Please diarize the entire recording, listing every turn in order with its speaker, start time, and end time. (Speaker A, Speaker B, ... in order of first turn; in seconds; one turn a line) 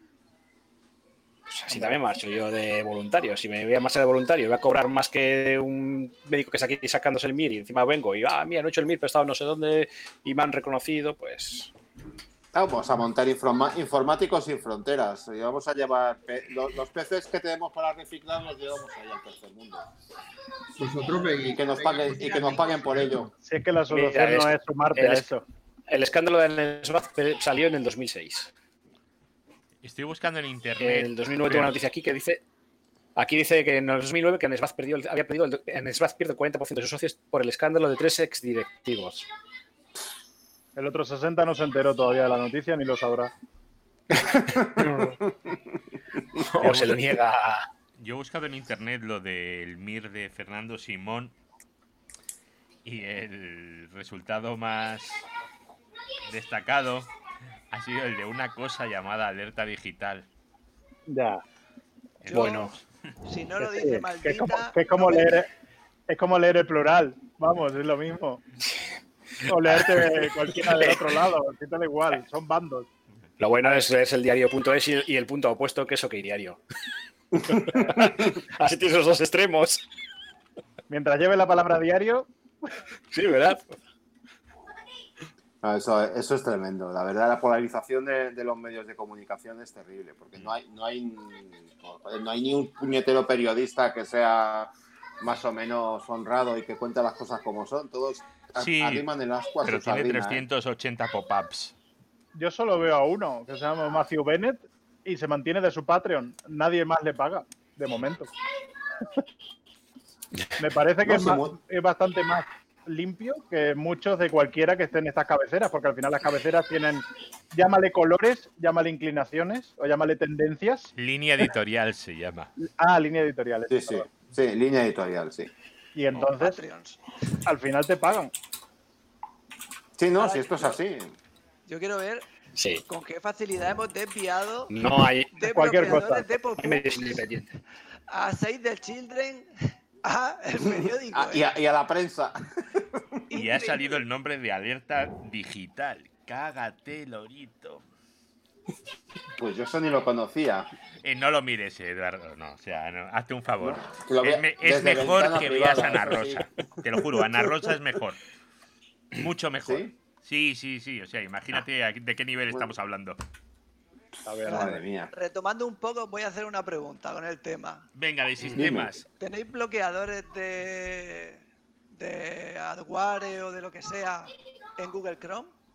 Speaker A: 1.5-11.7
Speaker B: 12.5-19.8
Speaker C: 20.8-23.3
Speaker B: 21.5-23.3
Speaker D: 22.2-22.6
Speaker E: 23.4-25.4
Speaker A: 23.9-25.3
Speaker A: 25.9-28.5
Speaker F: 29.8-31.7
Speaker A: 30.8-32.4
Speaker A: 33.1-39.3
Speaker E: 40.8-43.3
Speaker B: 44.2-44.9
Speaker A: 44.8-45.1
Speaker A: 46.4-47.7
Speaker F: 46.6-47.0
Speaker F: 48.0-51.3
Speaker F: 52.9-55.2
Speaker F: 56.3-57.1
Speaker F: 57.7-60.3
Speaker E: 61.1-61.4
Speaker F: 62.2-62.9
Speaker D: 62.3-62.7
Speaker A: 62.3-62.7
Speaker D: 63.2-65.4
Speaker E: 63.6-65.5
Speaker E: 66.1-68.4
Speaker A: 69.4-71.2
Speaker E: 69.4-72.9
Speaker A: 73.4-76.6
Speaker A: 77.5-79.8
Speaker E: 77.7-78.1
Speaker E: 80.9-82.3
Speaker A: 83.1-83.7
Speaker B: 85.6-100.4
Speaker F: 98.6-99.1
Speaker F: 99.6-101.7
Speaker E: 102.3-108.3
Speaker E: 110.6-120.9
Speaker B: 111.1-111.5
Speaker F: 121.0-122.5
Speaker E: 122.6-124.1
Speaker B: 123.7-125.5
Speaker E: 125.9-126.6
Speaker D: 126.1-127.0
Speaker E: 127.4-128.3
Speaker B: 130.0-131.1
Speaker D: 130.1-130.8
Speaker D: 131.7-132.3
Speaker A: 132.5-132.8
Speaker D: 132.9-137.2
Speaker A: 134.7-135.3
Speaker E: 135.5-136.3
Speaker A: 136.6-137.5
Speaker D: 138.1-139.5
Speaker D: 140.0-141.4
Speaker B: 141.1-142.8
Speaker D: 143.3-144.0
Speaker F: 143.3-147.8
Speaker B: 149.4-150.7
Speaker F: 151.0-158.2
Speaker B: 153.6-157.4
Speaker F: 159.1-163.2
Speaker B: 159.6-159.9
Speaker B: 164.2-165.1
Speaker E: 164.2-164.8
Speaker D: 164.5-167.8
Speaker F: 167.9-169.1
Speaker B: 168.4-168.9
Speaker D: 169.2-171.4
Speaker D: 171.9-175.5